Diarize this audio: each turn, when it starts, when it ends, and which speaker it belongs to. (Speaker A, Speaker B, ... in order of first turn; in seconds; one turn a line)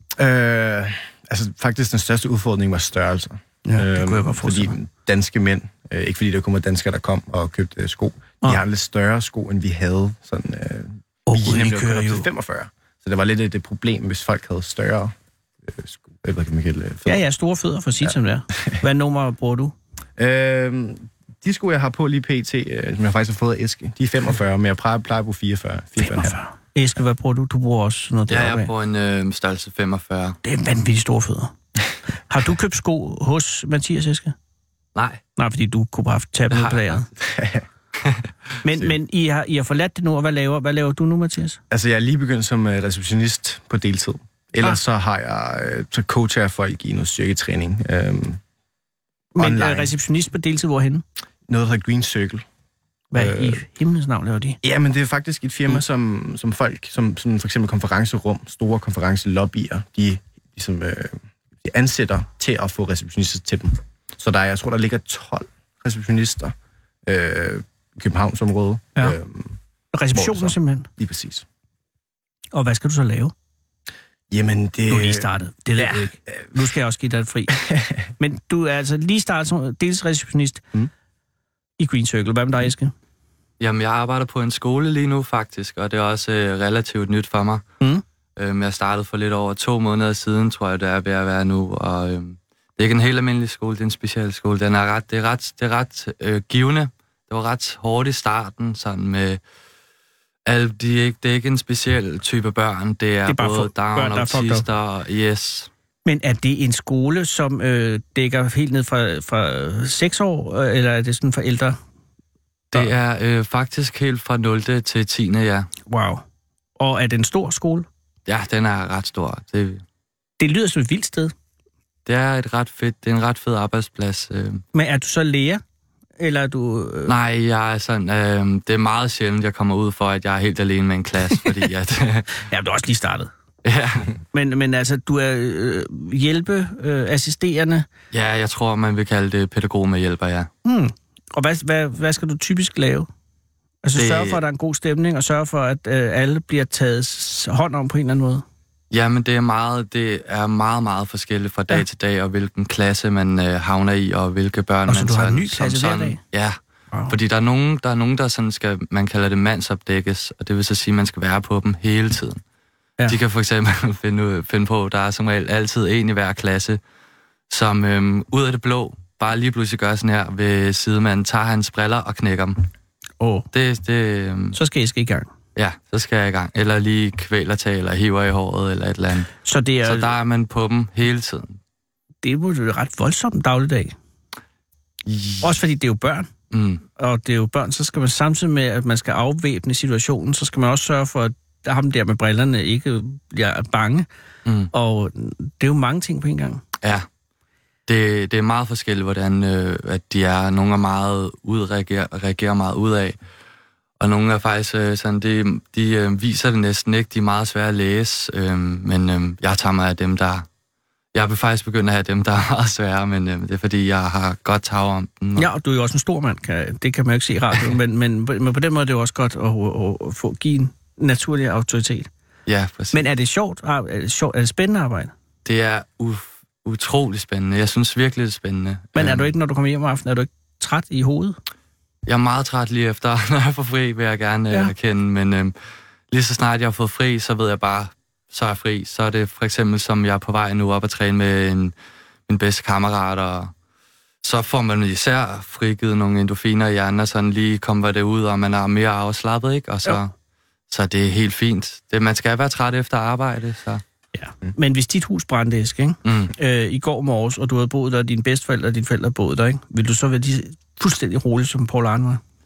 Speaker A: 0.2-17.2
Speaker B: 3.6-4.8
Speaker B: 11.3-12.3
Speaker B: 17.1-19.7
Speaker A: 18.0-18.8
Speaker A: 20.2-26.4
Speaker B: 26.0-28.7
Speaker C: 28.3-30.4
Speaker B: 30.4-31.5
Speaker B: 32.3-34.3
Speaker C: 34.9-35.2
Speaker B: 35.4-37.1
Speaker C: 36.5-37.0
Speaker A: 37.2-37.6
Speaker B: 38.6-41.6
Speaker A: 41.7-48.4
Speaker B: 49.4-51.0
Speaker A: 49.4-49.9
Speaker A: 51.5-52.4
Speaker B: 53.1-54.6
Speaker A: 53.1-53.6
Speaker A: 54.6-66.5
Speaker A: 67.0-69.6
Speaker B: 69.9-70.9
Speaker A: 70.1-71.4
Speaker B: 72.5-73.3
Speaker A: 74.3-76.6
Speaker B: 74.9-77.6
Speaker A: 77.5-78.0
Speaker B: 78.2-80.6
Speaker B: 81.8-82.9
Speaker C: 83.6-87.7
Speaker C: 88.3-99.4
Speaker C: 100.5-105.7
Speaker B: 103.3-104.6
Speaker B: 106.0-111.8
Speaker C: 112.7-115.7
Speaker B: 115.9-116.2
Speaker B: 116.8-117.9
Speaker C: 118.2-119.8
Speaker B: 120.4-121.3
Speaker C: 122.0-124.6
Speaker B: 124.7-125.6
Speaker B: 126.2-127.1
Speaker C: 127.0-132.4
Speaker B: 132.5-133.3
Speaker C: 133.6-134.1
Speaker B: 134.3-137.8
Speaker C: 138.1-140.5
Speaker B: 140.6-143.1
Speaker B: 143.8-148.4
Speaker C: 143.9-144.4
Speaker C: 148.9-156.6
Speaker B: 154.9-156.2
Speaker C: 157.1-162.4
Speaker C: 163.1-166.8
Speaker C: 167.5-172.6
Speaker B: 173.2-173.4
Speaker C: 173.5-174.6
Speaker B: 174.5-175.3
Speaker C: 175.5-179.3
Speaker B: 179.4-180.1
Speaker C: 179.8-181.6
Speaker B: 182.2-183.9
Speaker C: 185.1-185.5
Speaker B: 185.4-186.3
Speaker C: 186.5-186.8
Speaker B: 187.0-194.1
Speaker C: 194.4-194.7
Speaker B: 194.7-196.6
Speaker C: 196.8-197.1
Speaker C: 197.9-203.2
Speaker C: 204.0-210.5
Speaker C: 211.1-215.5
Speaker B: 215.4-222.1
Speaker C: 222.5-223.0
Speaker B: 222.9-225.1
Speaker C: 225.4-229.3
Speaker B: 228.9-231.4
Speaker C: 232.1-235.5
Speaker C: 236.1-241.7
Speaker C: 242.3-243.5
Speaker C: 244.2-250.1
Speaker C: 250.7-253.8
Speaker B: 254.1-262.2
Speaker C: 256.0-256.3